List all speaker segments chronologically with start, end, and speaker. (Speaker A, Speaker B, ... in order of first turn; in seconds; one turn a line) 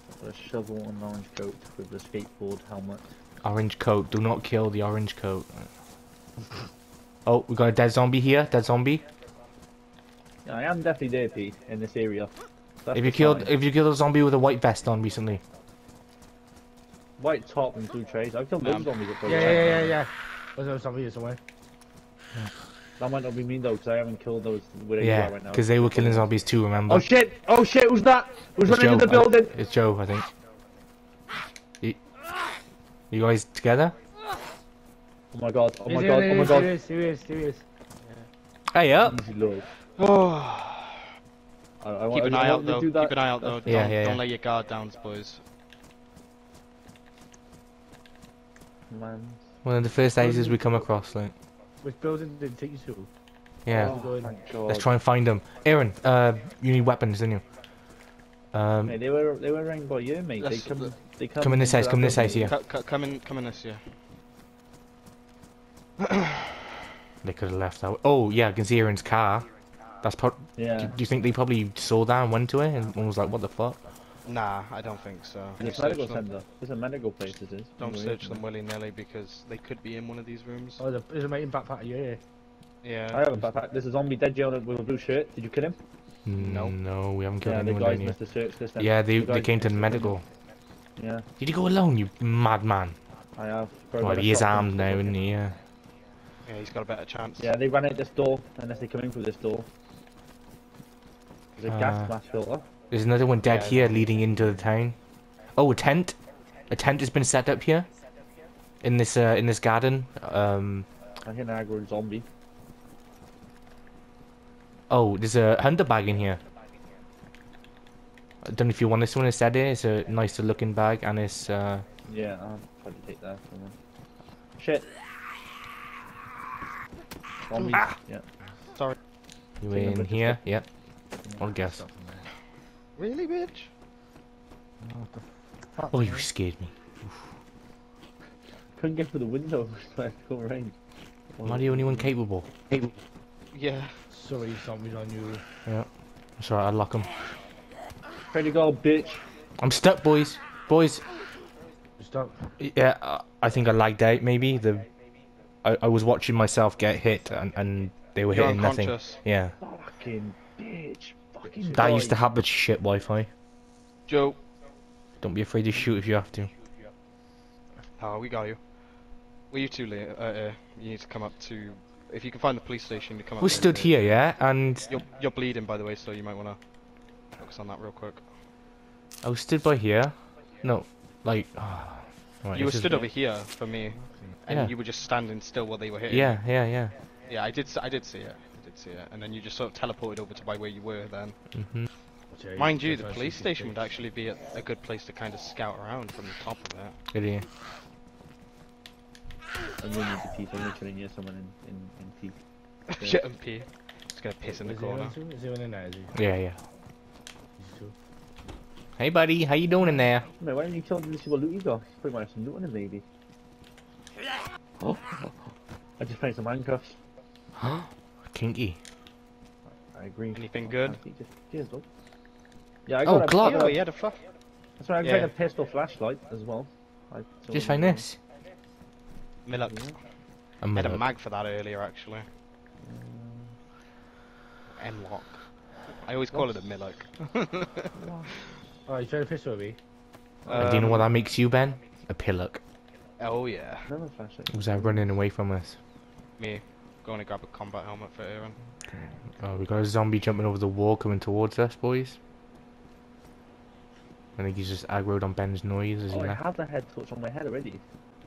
Speaker A: 0.2-3.1
Speaker B: 3.4-5.7
Speaker B: 7.3-9.1
Speaker A: 10.4-12.3
Speaker A: 12.8-13.6
Speaker B: 12.9-15.4
Speaker A: 17.2-20.0
Speaker C: 18.6-19.7
Speaker D: 19.2-21.4
Speaker A: 23.0-26.3
Speaker B: 25.0-27.1
Speaker A: 26.9-29.5
Speaker B: 28.6-30.3
Speaker B: 33.1-33.9
Speaker A: 35.3-36.7
Speaker D: 35.9-37.6
Speaker B: 38.7-39.2
Speaker A: 39.0-39.7
Speaker C: 40.0-41.0
Speaker A: 41.8-43.9
Speaker C: 42.1-45.4
Speaker B: 43.7-44.2
Speaker A: 48.9-49.5
Speaker B: 49.6-51.4
Speaker D: 50.2-50.5
Speaker D: 51.8-53.1
Speaker B: 53.6-54.0
Speaker A: 53.7-54.9
Speaker D: 53.7-54.3
Speaker B: 54.7-57.4
Speaker B: 58.5-59.0
Speaker A: 58.9-62.5
Speaker C: 60.4-60.9
Speaker B: 61.4-62.5
Speaker C: 62.3-63.8
Speaker B: 67.2-69.5
Speaker B: 70.0-73.8
Speaker A: 70.6-71.0
Speaker C: 74.2-76.2
Speaker A: 75.6-78.4
Speaker C: 77.8-80.8
Speaker D: 80.8-82.2
Speaker C: 82.8-83.2
Speaker A: 83.1-85.8
Speaker B: 86.2-88.2
Speaker C: 86.4-86.8
Speaker A: 87.4-90.2
Speaker B: 88.8-90.2
Speaker A: 91.0-91.3
Speaker B: 91.4-93.0
Speaker A: 93.4-95.2
Speaker B: 94.0-95.6
Speaker C: 96.5-97.5
Speaker A: 97.4-99.7
Speaker A: 101.6-102.7
Speaker B: 101.7-102.1
Speaker B: 102.9-105.0
Speaker C: 103.4-104.1
Speaker A: 104.4-104.6
Speaker B: 105.6-106.2
Speaker B: 106.7-107.9
Speaker B: 108.8-110.9
Speaker A: 111.2-112.3
Speaker B: 114.9-116.4
Speaker B: 118.4-121.8
Speaker A: 122.1-123.8
Speaker A: 124.6-124.9
Speaker A: 127.5-128.2
Speaker B: 127.6-128.0
Speaker B: 129.6-130.7
Speaker A: 129.7-130.4
Speaker B: 131.3-131.8
Speaker D: 131.6-132.3
Speaker C: 133.0-133.7
Speaker D: 134.8-135.2
Speaker B: 135.9-137.1
Speaker A: 138.8-140.8
Speaker A: 141.3-142.1
Speaker B: 141.4-142.9
Speaker C: 143.5-143.9
Speaker D: 144.1-145.4
Speaker B: 146.4-147.1
Speaker A: 148.3-149.2
Speaker B: 149.6-151.0
Speaker D: 152.0-152.5
Speaker B: 152.6-154.9
Speaker B: 155.6-159.6
Speaker C: 158.3-159.2
Speaker A: 159.6-162.2
Speaker B: 161.8-163.3
Speaker C: 164.1-164.4
Speaker B: 165.2-166.5
Speaker C: 168.0-168.6
Speaker C: 169.5-174.1
Speaker B: 173.4-175.0
Speaker C: 174.9-176.6
Speaker C: 177.4-178.2
Speaker B: 179.2-183.1
Speaker C: 182.5-186.4
Speaker D: 184.0-184.3
Speaker B: 184.5-184.7
Speaker B: 186.1-186.9
Speaker C: 187.3-191.4
Speaker B: 191.5-191.9
Speaker D: 192.3-193.9
Speaker C: 192.6-197.0
Speaker B: 197.1-197.5
Speaker A: 199.8-202.4
Speaker C: 202.9-205.2
Speaker A: 203.0-203.3
Speaker D: 204.4-206.1
Speaker B: 206.1-206.6
Speaker D: 207.6-207.9
Speaker B: 209.0-210.3
Speaker A: 210.3-213.0
Speaker A: 214.8-215.4
Speaker A: 216.0-217.0
Speaker B: 217.6-218.8
Speaker A: 219.8-221.8
Speaker C: 220.3-221.0
Speaker A: 222.9-223.8
Speaker B: 223.0-223.8
Speaker C: 223.4-224.2
Speaker A: 224.8-228.1
Speaker C: 225.0-225.3
Speaker B: 227.5-228.2
Speaker C: 229.5-229.9
Speaker A: 229.5-230.0
Speaker B: 230.6-231.1
Speaker C: 230.7-232.3
Speaker A: 232.8-233.6
Speaker C: 234.8-235.4
Speaker C: 236.0-237.9
Speaker A: 236.3-236.7
Speaker A: 237.9-238.3
Speaker D: 238.9-239.8
Speaker A: 240.4-241.1
Speaker C: 240.5-241.1
Speaker B: 240.5-242.6
Speaker C: 243.2-243.9
Speaker A: 243.9-245.1
Speaker B: 244.5-245.8
Speaker C: 246.4-248.6
Speaker B: 248.9-252.2
Speaker B: 254.4-256.4
Speaker A: 256.1-257.8